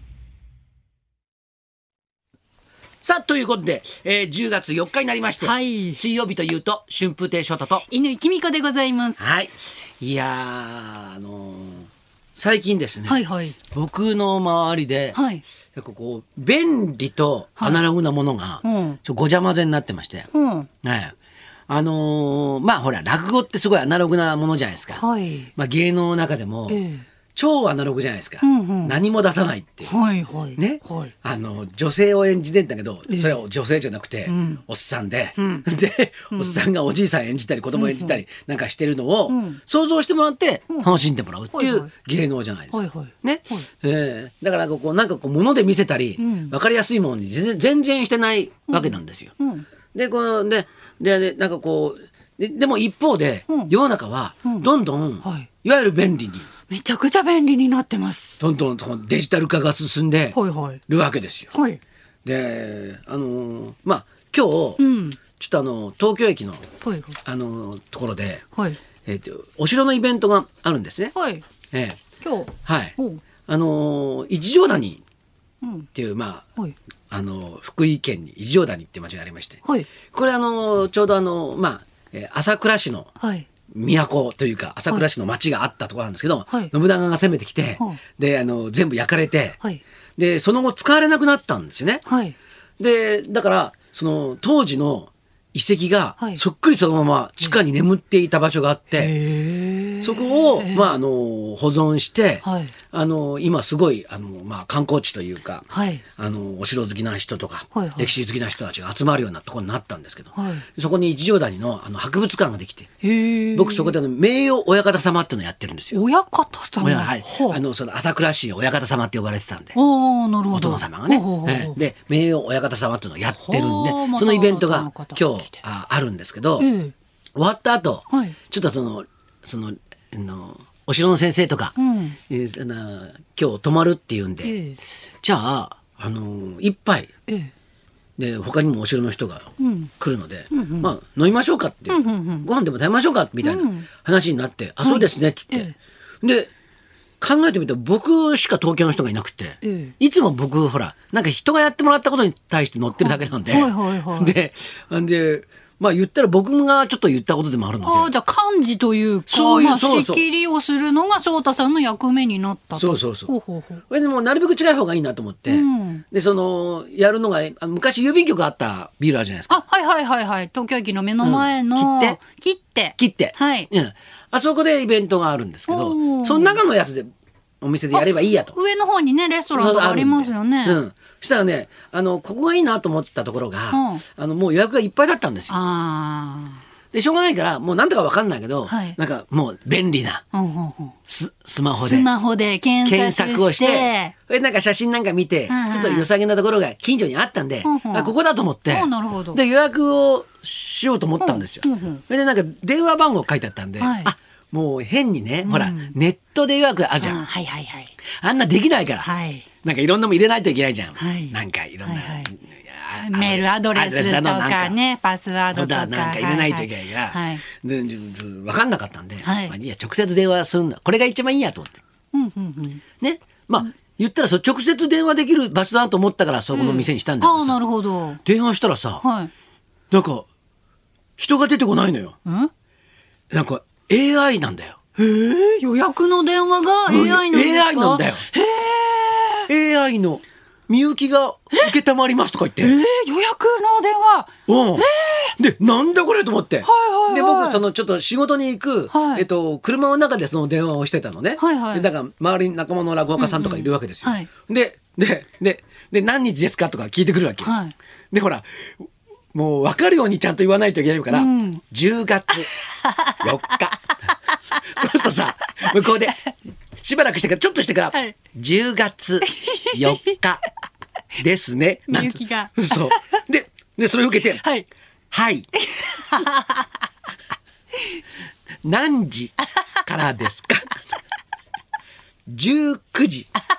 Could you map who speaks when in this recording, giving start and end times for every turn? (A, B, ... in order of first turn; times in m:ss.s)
0:03.0-0:07.8 A
0:05.4-0:06.0 B
0:07.9-0:09.2 B
0:09.2-0:15.2 A
0:13.1-0:13.6 B
0:15.1-0:15.4 B
0:15.8-0:20.3 A
0:17.6-0:17.9 B
0:18.6-0:19.0 B
0:20.3-0:20.7 B
0:20.8-0:21.1 A
0:21.7-0:25.0 A
0:24.9-0:25.5 B
0:25.6-0:26.8 A
0:26.7-0:27.0 B
0:27.3-0:29.9 A
0:28.4-0:29.0 B
0:29.9-0:31.1 B
0:30.6-0:49.3 A
0:33.1-0:33.4 B
0:34.3-0:34.6 B
0:35.4-0:35.6 B
0:36.3-0:36.6 B
0:37.7-0:38.2 B
0:39.3-0:39.6 B
0:41.5-0:41.9 B
0:42.7-0:43.7 B
0:46.2-0:46.5 B
0:48.7-0:49.7 B
0:49.9-0:56.5 A
0:53.5-0:53.7 B
0:54.4-0:54.7 B
0:55.2-0:55.5 B
0:56.7-0:58.4 B
0:58.4-1:01.5 A
1:00.3-1:00.8 B
1:01.5-1:01.8 B
1:02.2-1:04.8 A
1:04.8-1:05.2 B
1:05.4-1:06.7 A
1:06.8-1:07.2 B
1:07.2-1:08.4 A
1:09.0-1:11.1 A
1:11.1-1:11.4 B
1:11.7-1:12.0 A
1:12.2-1:13.2 B
1:12.6-1:15.0 A
1:15.6-1:15.9 B
1:15.9-1:16.4 A
1:17.1-1:23.1 A
1:19.6-1:19.9 B
1:23.2-1:23.5 B
1:23.7-1:29.6 A
1:30.2-1:32.0 A
1:32.1-1:32.4 B
1:32.8-1:39.1 A
1:39.0-1:40.9 B
1:40.0-1:45.6 A
1:42.4-1:42.7 B
1:45.7-1:46.0 B
1:46.2-1:52.9 A
1:47.7-1:48.1 B
1:50.4-1:50.6 B
1:53.0-1:53.9 B
1:53.6-1:56.0 A
1:55.9-1:57.6 B
1:56.8-1:59.8 A
1:59.7-2:01.8 B
2:00.5-2:06.7 A
2:03.3-2:05.6 B
2:06.6-2:06.9 B
2:07.4-2:11.8 A
2:08.1-2:08.4 B
2:11.8-2:12.2 B
2:12.3-2:14.6 A
2:14.4-2:14.8 B
2:15.2-2:17.1 A
2:18.2-2:25.7 A
2:19.6-2:19.9 B
2:20.5-2:20.9 B
2:21.9-2:22.5 B
2:23.4-2:23.9 B
2:24.8-2:25.8 B
2:26.2-2:26.5 A
2:27.2-2:38.1 A
2:29.6-2:29.9 B
2:33.0-2:34.3 B
2:37.8-2:43.8 B
2:39.3-2:40.2 A
2:42.8-2:43.3 A
2:43.9-2:49.6 A
2:45.5-2:46.0 B
2:49.5-2:53.7 B
2:51.2-2:52.2 A
2:53.0-2:57.1 A
2:55.7-2:56.6 B
2:57.6-2:58.6 A
2:57.9-3:00.8 B
2:59.5-3:05.6 A
3:03.7-3:04.0 B
3:05.5-3:06.6 B
3:06.9-3:10.2 A
3:08.7-3:09.0 B
3:10.3-3:11.0 B
3:11.1-3:12.1 A
3:11.8-3:14.1 B
3:12.8-3:27.2 A
3:15.5-3:16.1 B
3:17.6-3:18.1 B
3:18.7-3:19.4 B
3:21.2-3:22.0 B
3:23.8-3:24.1 B
3:25.4-3:26.0 B
3:27.0-3:27.9 B
3:28.2-3:29.1 A
3:29.0-3:29.5 B
3:29.6-3:34.8 A
3:31.0-3:32.3 B
3:33.0-3:37.4 B
3:35.5-3:41.8 A
3:39.2-3:39.6 B
3:42.1-3:42.8 B
3:43.0-3:47.6 A
3:46.5-3:48.2 B
3:48.2-3:49.0 A
3:49.0-3:49.3 B
3:49.9-3:50.3 A
3:51.2-3:52.2 A
3:52.3-3:52.5 B
3:53.3-3:54.8 A
3:55.0-3:59.5 B
3:56.9-3:58.2 A
3:59.5-4:02.8 A
4:02.6-4:05.3 B
4:04.5-4:17.6 A
4:06.6-4:07.6 B
4:08.9-4:09.2 B
4:11.4-4:11.9 B
4:13.2-4:14.3 B
4:17.4-4:17.8 B
4:18.1-4:22.5 A
4:21.1-4:21.6 B
4:22.5-4:23.5 B
4:23.2-4:23.8 A
4:24.5-4:26.2 A
4:26.8-4:30.4 A
4:29.2-4:30.2 B
4:31.2-4:34.4 A
4:31.9-4:33.0 B
4:34.3-4:34.7 B
4:35.1-4:35.5 A
4:35.6-4:36.7 B
4:38.6-4:40.8 A
4:42.3-4:43.3 A